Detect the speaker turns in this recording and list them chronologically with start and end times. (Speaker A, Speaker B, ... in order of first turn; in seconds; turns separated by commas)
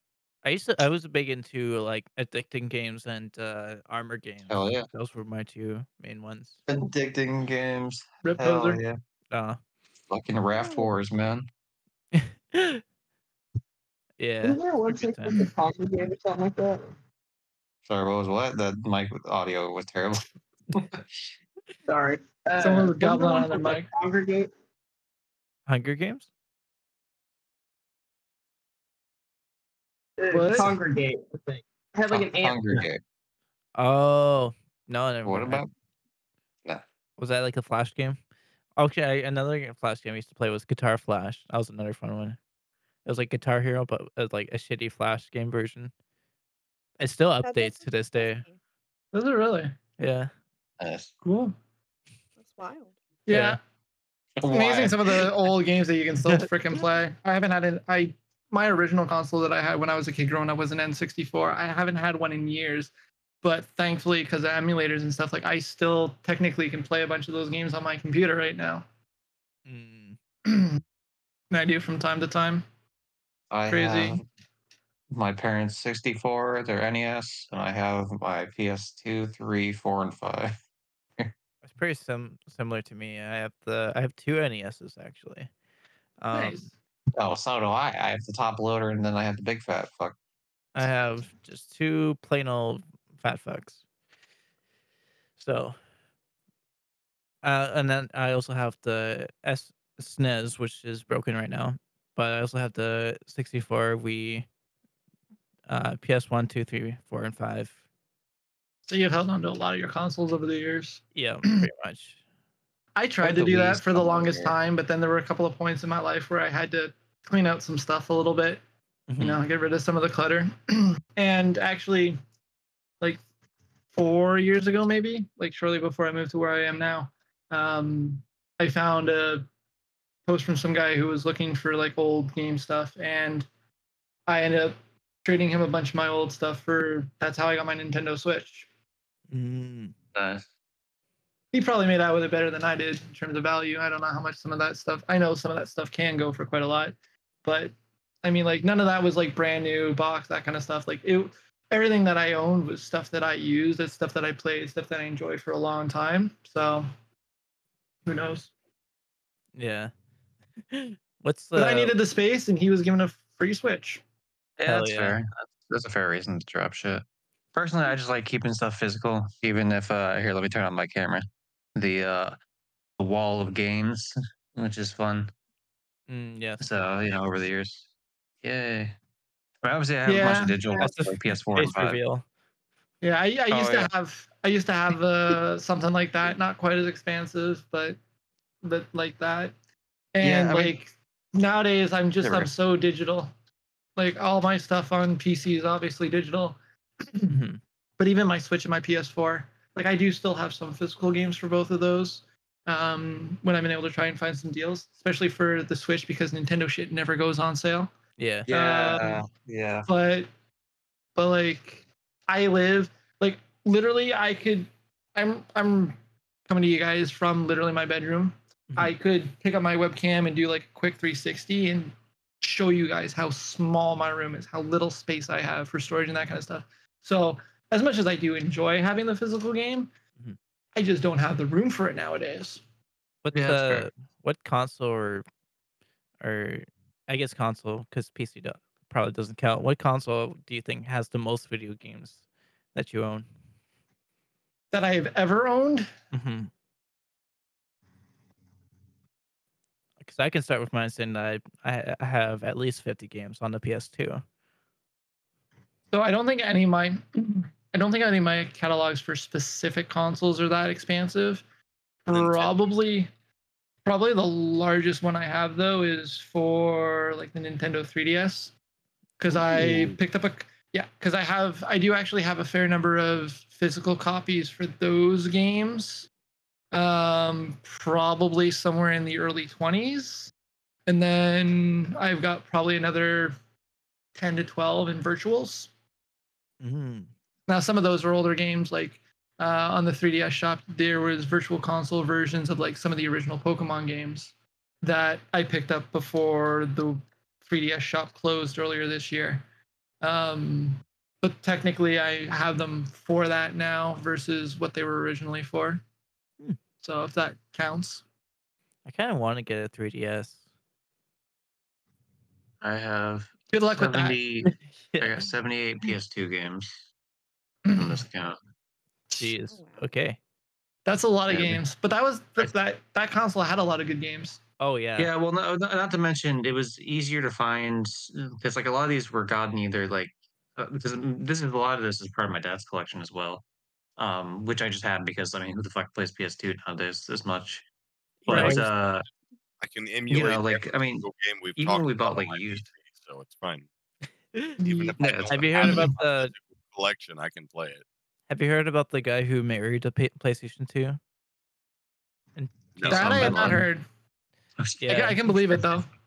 Speaker A: 0.4-6.6, Speaker B: 4.5-4.9, Speaker B: 6.7-9.0, Speaker C: 8.2-8.8, Speaker A: 9.3-9.6, Speaker B: 10.1-11.5, Speaker A: 12.1-12.8, Speaker A: 14.2-15.4, Speaker D: 14.4-16.9, Speaker B: 17.9-20.2, Speaker B: 20.7-21.0, Speaker D: 21.9-24.5, Speaker C: 22.6-23.9, Speaker A: 25.7-26.3, Speaker D: 30.2-32.9, Speaker C: 30.3-30.7, Speaker B: 32.1-33.0, Speaker A: 33.8-35.6, Speaker B: 35.2-35.7, Speaker A: 37.2-38.2, Speaker A: 38.8-42.4, Speaker A: 43.0-45.9, Speaker A: 47.0-48.4, Speaker E: 47.4-48.5, Speaker C: 49.1-49.7, Speaker A: 50.0-50.3, Speaker B: 50.8-51.1, Speaker C: 51.2-51.5, Speaker E: 52.4-52.9, Speaker C: 53.3-53.6, Speaker A: 53.3-53.6, Speaker B: 54.4-55.5, Speaker C: 54.5-62.9, Speaker C: 63.4-68.8, Speaker A: 69.7-70.2, Speaker C: 70.5-70.8, Speaker C: 71.5-72.7, Speaker B: 73.5-74.2, Speaker C: 73.7-74.2, Speaker B: 75.1-80.5, Speaker A: 81.6-85.5, Speaker A: 86.2-86.6, Speaker C: 86.3-86.7, Speaker B: 87.2-90.2, Speaker A: 90.7-93.8, Speaker A: 95.4-95.8, Speaker A: 97.4-104.5, Speaker A: 105.7-107.7, Speaker C: 108.9-111.7, Speaker A: 111.1-112.2, Speaker C: 113.0-118.6, Speaker B: 113.2-114.5, Speaker A: 119.1-119.4, Speaker C: 119.2-122.2, Speaker C: 123.9-129.5, Speaker C: 130.2-133.5, Speaker C: 134.3-138.7, Speaker A: 139.3-139.9, Speaker B: 140.1-140.4, Speaker C: 141.5-156.9, Speaker C: 158.1-158.5, Speaker A: 159.6-159.9, Speaker A: 160.7-161.9, Speaker C: 161.6-164.0, Speaker B: 164.6-172.3, Speaker A: 164.7-165.2, Speaker B: 173.0-175.3, Speaker A: 176.1-176.6, Speaker B: 176.6-177.9, Speaker B: 178.4-178.9, Speaker B: 179.6-182.0, Speaker C: 180.0-180.8, Speaker A: 180.8-182.2, Speaker C: 183.0-188.0, Speaker B: 183.5-183.9, Speaker C: 188.6-189.5, Speaker C: 190.1-193.3, Speaker B: 190.2-190.8, Speaker B: 192.2-192.5, Speaker C: 193.9-197.3, Speaker A: 197.3-197.6, Speaker C: 198.0-207.9, Speaker A: 208.2-208.5, Speaker B: 208.5-209.9, Speaker C: 208.5-209.3, Speaker C: 209.9-210.3, Speaker C: 211.2-215.9, Speaker C: 216.5-229.9, Speaker C: 230.7-232.6, Speaker A: 233.2-235.2, Speaker B: 233.3-233.9, Speaker A: 236.2-242.2, Speaker A: 242.7-243.2, Speaker C: 244.7-245.9, Speaker A: 246.1-246.5, Speaker A: 250.0-254.2, Speaker C: 255.9-261.4, Speaker C: 262.1-263.1, Speaker B: 262.1-262.5, Speaker C: 263.8-268.5, Speaker C: 269.2-276.1, Speaker C: 276.7-280.3, Speaker C: 280.9-283.3, Speaker C: 284.1-285.7, Speaker A: 286.6-287.1, Speaker C: 287.5-299.4, Speaker C: 300.0-305.8, Speaker C: 306.8-308.0, Speaker A: 308.9-310.4, Speaker B: 312.6-316.8, Speaker C: 313.5-314.2, Speaker A: 314.5-315.3, Speaker C: 317.6-318.0, Speaker B: 317.7-318.4, Speaker A: 319.1-320.2, Speaker E: 319.4-319.9, Speaker C: 320.9-324.4, Speaker B: 321.3-321.6, Speaker A: 324.6-325.1, Speaker B: 325.0-333.4, Speaker B: 334.0-337.6, Speaker B: 338.2-339.1, Speaker C: 338.3-338.7, Speaker A: 338.3-338.6, Speaker F: 339.6-343.7, Speaker B: 340.1-342.7, Speaker C: 344.6-345.0, Speaker F: 344.6-347.8, Speaker B: 345.0-345.9, Speaker A: 345.3-346.3, Speaker A: 348.3-351.0, Speaker A: 352.4-353.6, Speaker F: 352.8-353.2, Speaker B: 352.9-353.7, Speaker C: 352.9-353.8, Speaker B: 354.6-355.8, Speaker A: 354.8-355.2, Speaker C: 354.9-355.9